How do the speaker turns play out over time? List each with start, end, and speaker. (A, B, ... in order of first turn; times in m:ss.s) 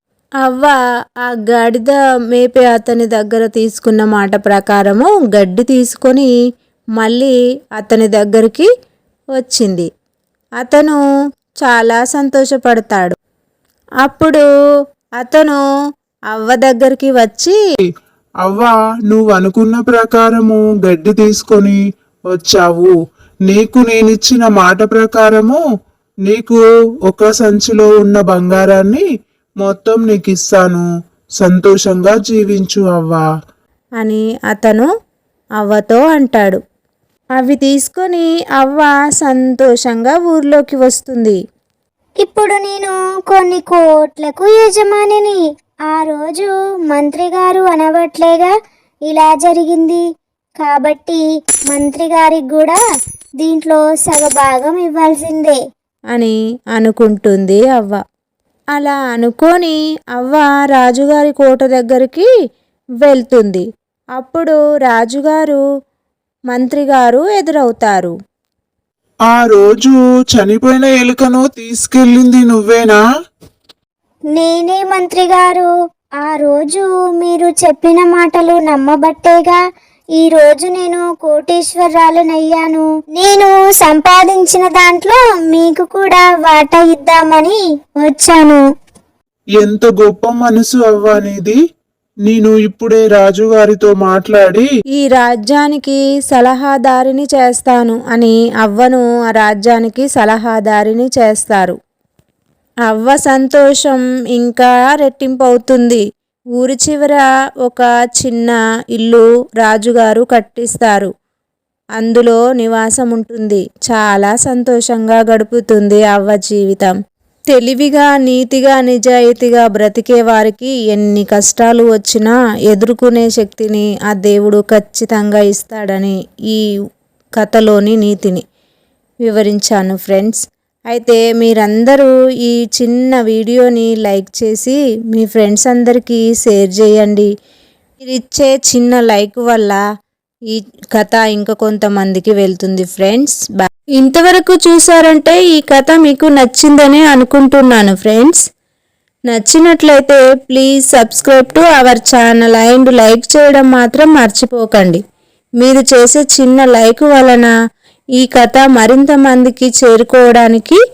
0:00.4-0:00.7 A
0:01.3-0:06.3 A
0:07.0-0:08.7 A
0:09.4-0:09.9 A
0:10.6-0:11.0 A
0:11.6-0:13.2 A
0:14.0-0:14.4 A
0:15.2-0:15.6 A
0:16.3-0:17.6 A
0:18.4-0:21.8 B
0:22.3-0:22.9 B
0:23.5-0:25.6 B
0:26.3-0:29.0 B
0:29.6-0:30.8 B
0:31.4-0:33.2 B
0:34.0-0:34.9 A
0:35.6-0:36.6 A
0:37.4-0:41.4 A
0:42.2-0:45.4 C
0:45.9-0:48.5 C
0:49.1-0:50.0 C
0:50.6-0:52.8 C
0:53.4-0:55.6 C
0:56.1-0:58.0 A
0:58.7-1:02.3 A
1:03.0-1:03.6 A
1:04.2-1:05.6 A
1:06.5-1:08.1 A
1:09.3-1:13.0 B
1:14.3-1:15.7 C
1:16.2-1:19.6 C
1:20.2-1:28.6 C
1:29.6-1:31.6 B
1:32.3-1:34.7 B
1:35.0-1:41.8 A
1:42.9-1:46.0 A
1:46.6-1:51.1 A
1:52.0-1:56.9 A
1:57.5-2:06.6 A
2:07.4-2:08.4 A
2:09.2-2:17.3 A
2:18.0-2:19.8 A
2:20.5-2:28.4 A
2:29.3-2:35.0 A
2:35.6-2:37.5 A
2:38.2-2:40.8 A